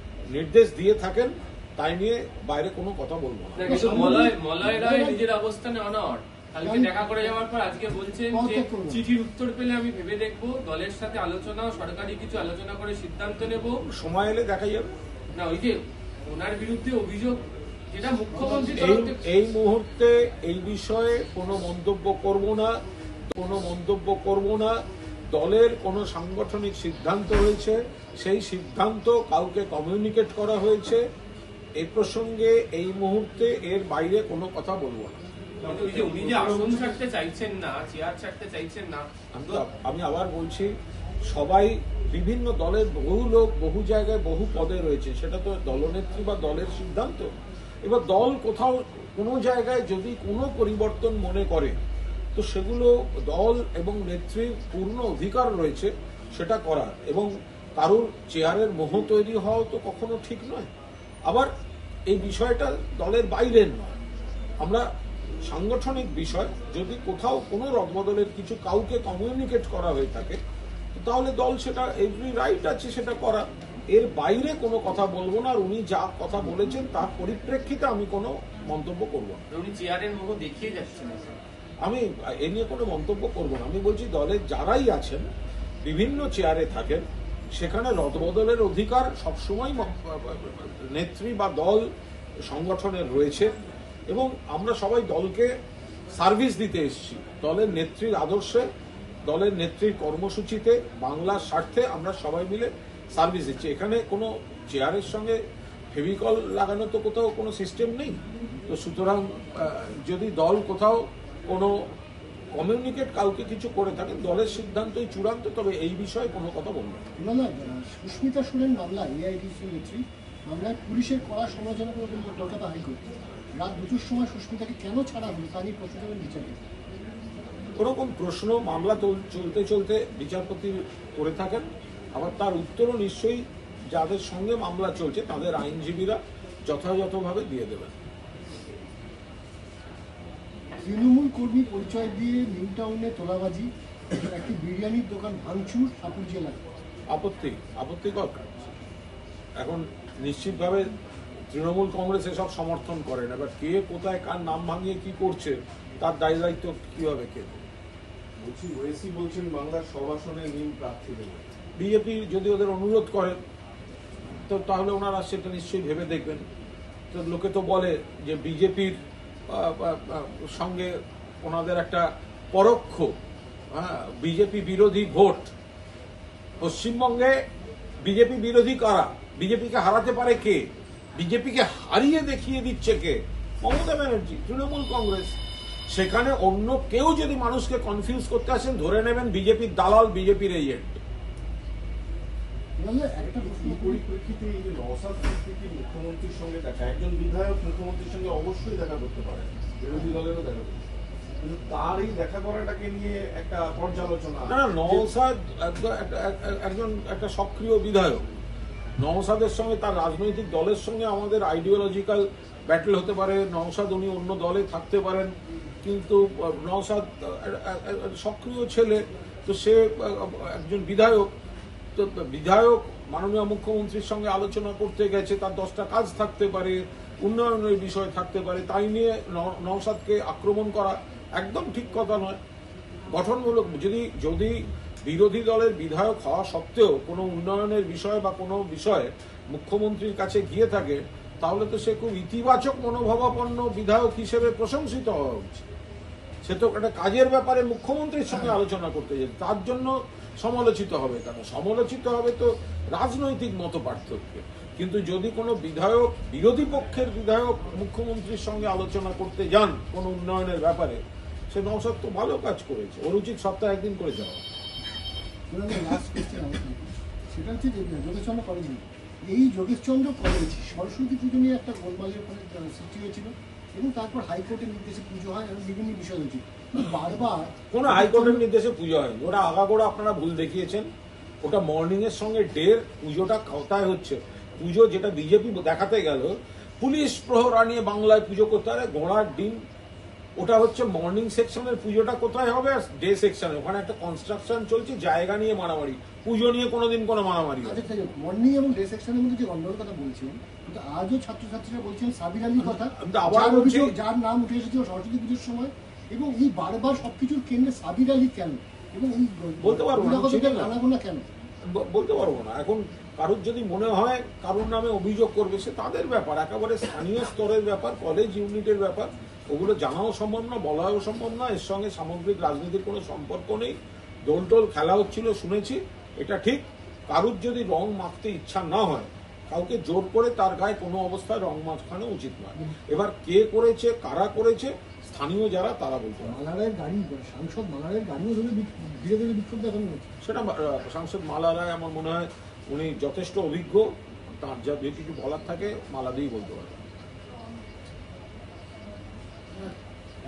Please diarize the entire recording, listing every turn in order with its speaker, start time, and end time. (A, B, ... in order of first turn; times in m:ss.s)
0:00.3-0:03.8 A
0:03.6-0:13.8 B
0:03.6-0:05.2 C
0:06.6-0:07.3 C
0:08.3-0:09.0 C
0:13.9-0:14.9 A
0:15.4-0:19.2 B
0:18.3-0:18.8 C
0:18.7-0:22.7 A
0:23.3-0:24.7 A
0:25.3-0:31.0 A
0:31.8-0:35.2 A
0:35.6-0:37.0 D
0:35.6-0:39.6 B
0:39.3-0:40.7 A
0:41.3-0:47.3 A
0:47.8-0:51.8 A
0:52.4-1:00.7 A
1:02.1-1:04.0 A
1:05.5-1:10.4 A
1:11.0-1:19.4 A
1:19.5-1:21.4 B
1:21.8-1:25.2 A
1:25.8-1:27.0 A
1:27.6-1:31.8 A
1:32.5-1:33.5 A
1:34.1-1:35.5 A
1:36.2-1:38.6 A
1:39.3-1:45.4 A
1:45.9-1:51.8 A
1:52.5-1:57.0 A
1:57.2-2:03.1 C
2:03.6-2:06.7 C
2:07.8-2:18.0 A
2:20.8-2:26.6 C
2:27.1-2:28.7 A
2:29.6-2:30.8 A
2:31.5-2:37.7 A
2:38.4-2:41.5 D
2:41.8-2:43.4 A
2:44.5-2:46.4 A
2:47.1-2:53.1 A
2:53.7-2:55.5 A
2:56.6-2:57.4 A
2:58.0-3:00.6 A
3:01.2-3:05.3 A
3:05.9-3:11.0 A
3:12.8-3:14.0 C
3:13.3-3:20.9 D
3:21.4-3:25.1 D
3:24.5-3:28.2 A
3:29.0-3:41.3 A
3:42.0-3:52.4 A
3:53.1-4:05.7 A
4:06.4-4:24.4 A
4:08.3-4:08.6 C
4:25.5-4:38.4 C
4:37.7-4:40.9 A
4:41.4-4:49.6 A
4:50.4-4:57.8 A
4:57.6-5:11.2 C
5:02.6-5:04.0 A
5:09.6-5:10.8 A
5:11.6-5:36.4 A
5:36.2-5:40.1 C
5:40.2-5:46.8 A